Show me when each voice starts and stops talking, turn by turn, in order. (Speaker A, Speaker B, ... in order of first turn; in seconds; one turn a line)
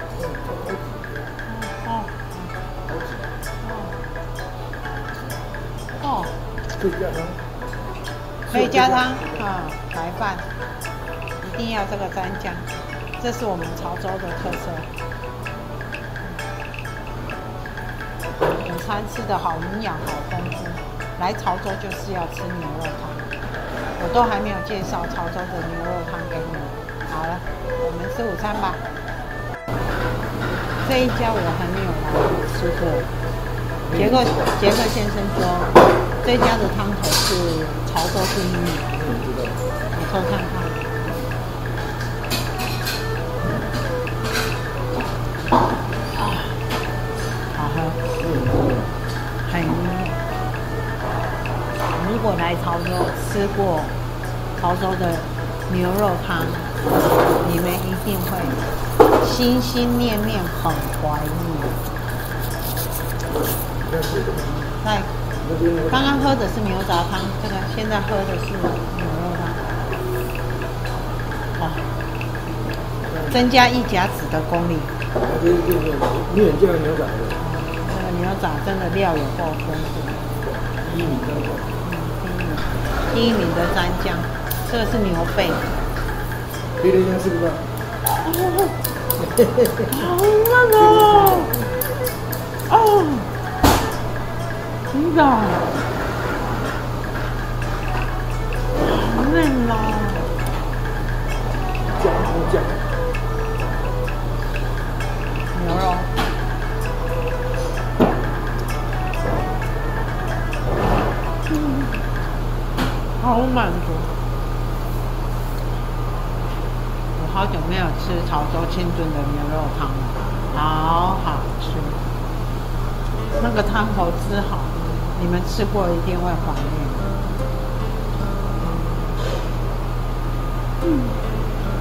Speaker A: 1.4-2.5
Speaker A: 3.6-4.0
Speaker A: 6.0-6.3
Speaker B: 6.8-7.3
Speaker A: 8.5-10.5
Speaker A: 11.4-12.7
Speaker A: 13.2-14.9
Speaker A: 18.4-23.3
Speaker A: 24.0-28.8
Speaker A: 30.8-33.1
Speaker A: 33.9-39.1
Speaker A: 39.9-40.8
Speaker A: 46.1-46.5
Speaker A: 47.5-48.0
Speaker A: 49.5-50.2
Speaker A: 51.9-54.0
Speaker A: 54.6-56.7
Speaker A: 57.4-58.6
Speaker A: 59.2-61.8
Speaker B: 63.9-64.5
Speaker A: 64.8-65.1
Speaker B: 65.5-65.8
Speaker A: 65.9-69.6
Speaker A: 71.6-71.9
Speaker A: 73.2-74.9
Speaker B: 75.3-77.3
Speaker A: 77.4-80.3
Speaker B: 80.9-81.6
Speaker A: 81.8-85.7
Speaker B: 86.8-87.6
Speaker A: 88.2-88.8
Speaker A: 89.9-91.5
Speaker A: 92.7-93.3
Speaker A: 94.9-95.7
Speaker A: 98.8-100.3
Speaker B: 102.0-102.7
Speaker A: 105.5-106.1
Speaker A: 111.5-112.0
Speaker A: 113.2-114.1
Speaker A: 117.2-122.0
Speaker A: 123.4-127.1
Speaker A: 130.8-131.1